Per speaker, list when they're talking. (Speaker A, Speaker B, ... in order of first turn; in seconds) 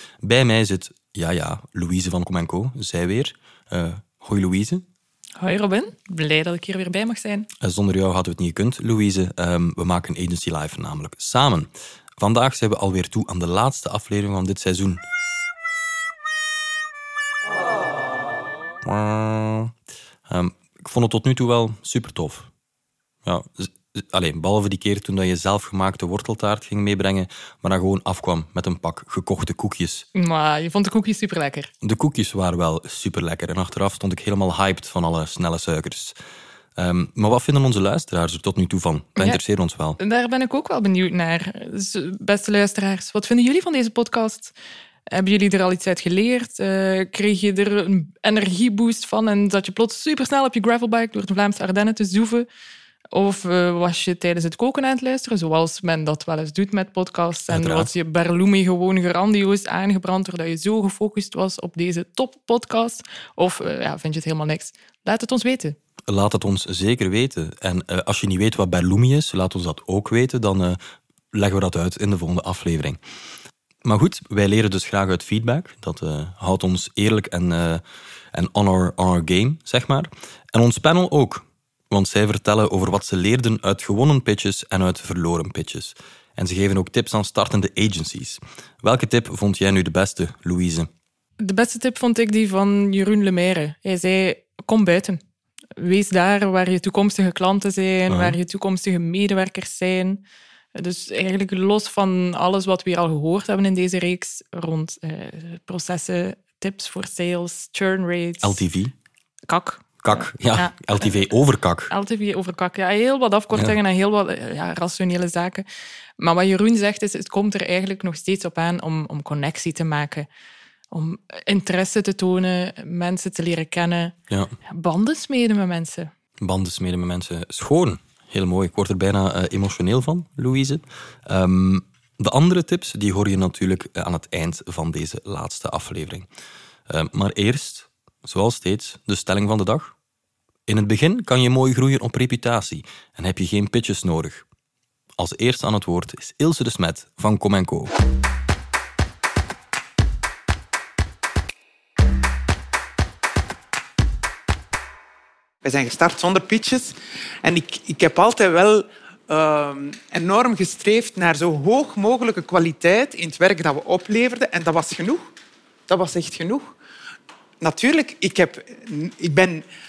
Speaker A: 0.2-4.8, 7.6-15.0, 18.8-19.7, 20.3-22.5, 23.2-30.0, 31.8-36.1, 36.8-40.0, 57.5-57.9, 66.1-70.8, 71.3-73.0, 73.8-77.8, 78.3-90.9, 98.1-98.4, 108.4-108.9, 110.0-111.9, 126.4-136.3, 136.9-139.9, 140.7-144.4, 145.2-147.9
Speaker B: 5.4-7.5, 30.1-31.7, 40.0-44.5, 45.1-52.5, 53.1-65.8, 91.4-95.2, 95.8-100.2, 100.7-108.6, 109.5-111.2, 111.9-115.7, 116.2-120.3, 120.9-124.1, 124.7-126.1
Speaker C: 155.6-165.2, 165.9-166.7, 167.6-169.6